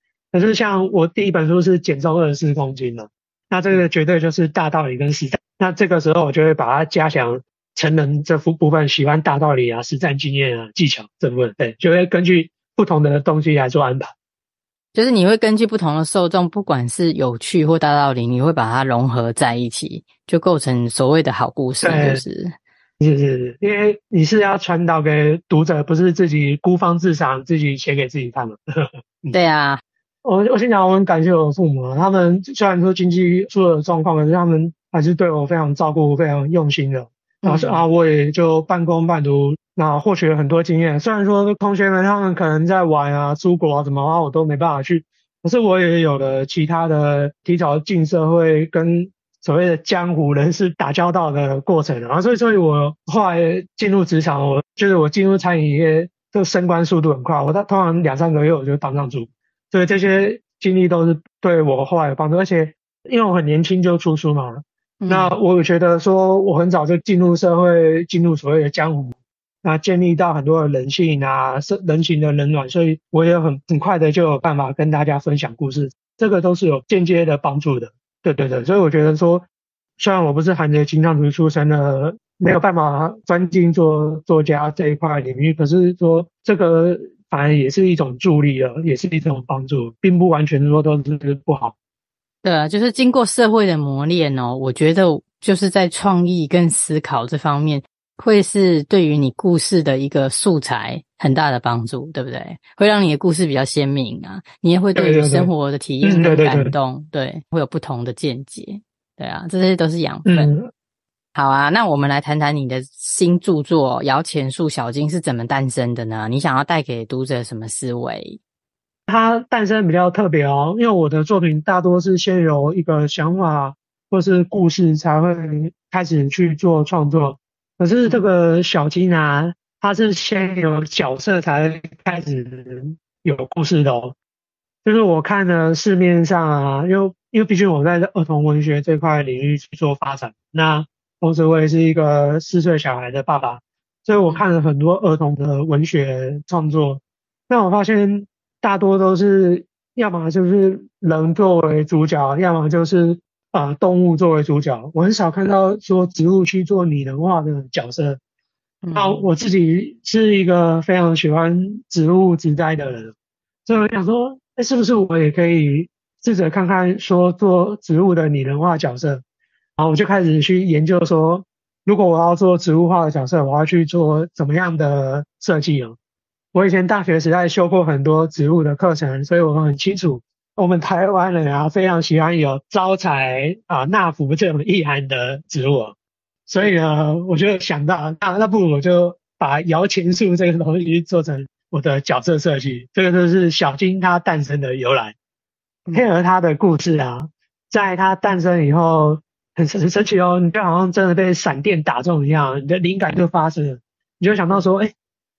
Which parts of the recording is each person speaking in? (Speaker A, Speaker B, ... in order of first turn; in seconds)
Speaker A: 0.3-14.1, 21.8-22.2, 23.0-29.4, 30.2-79.5, 80.0-91.7, 104.9-105.5, 106.0-106.7, 110.2-110.7, 119.1-134.2, 134.8-158.2, 158.9-163.1, 163.7-169.2, 169.8-175.9, 176.5-185.9, 186.5-195.1, 195.9-204.9
Speaker B: 14.9-22.5, 29.3-29.8, 37.4-37.8, 65.0-65.3, 92.4-110.5, 111.3-118.4, 158.8-159.3